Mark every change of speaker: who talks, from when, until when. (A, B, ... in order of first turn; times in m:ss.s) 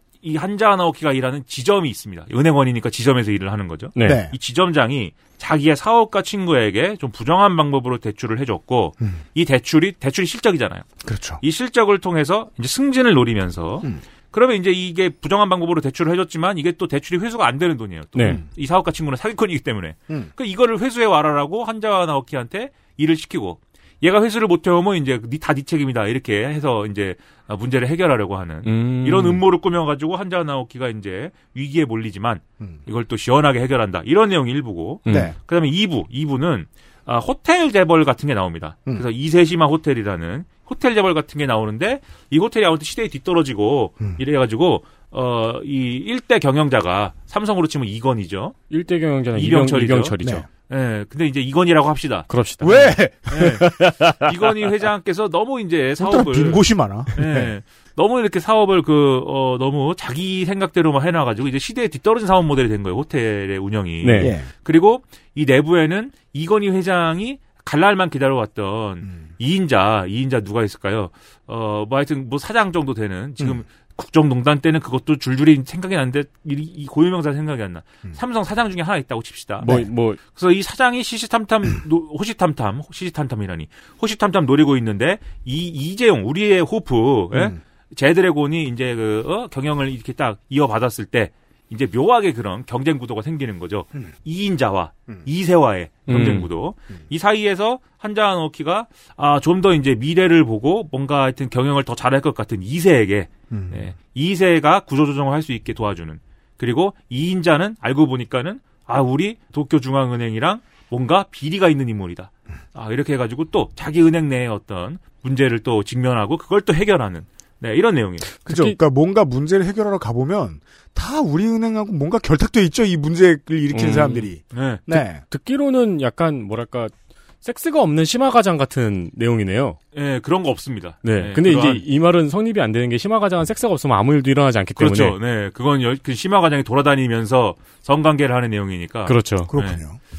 0:00.2-0:10.9 A
0:03.9-0:04.2 B
0:04.0-0:04.3 C
0:11.0-0:11.4 C
0:11.4-0:48.6 A
0:18.2-0:18.4 B
0:28.6-0:29.4 B
0:35.0-0:35.3 B
0:35.1-0:35.3 C
0:48.7-0:50.4 B
0:49.3-0:52.3 A
0:50.2-0:50.5 C
0:52.3-0:53.0 B
0:52.6-0:54.0 C
0:53.3-0:56.6 A
0:56.0-0:57.5 C
0:57.1-1:58.3 A
1:04.0-1:04.3 B
1:04.2-1:04.5 C
1:19.6-1:20.2 B
1:27.3-1:27.6 C
1:36.1-1:36.5 B
1:43.5-1:43.8 C
1:58.4-1:58.8 B
1:58.4-2:05.2 C
2:03.7-2:04.3 B
2:04.5-2:04.9 A
2:04.9-2:09.8 B
2:09.9-2:11.8 A
2:11.0-2:15.2 B
2:14.8-2:19.8 A
2:19.0-2:19.5 B
2:19.5-2:20.0 C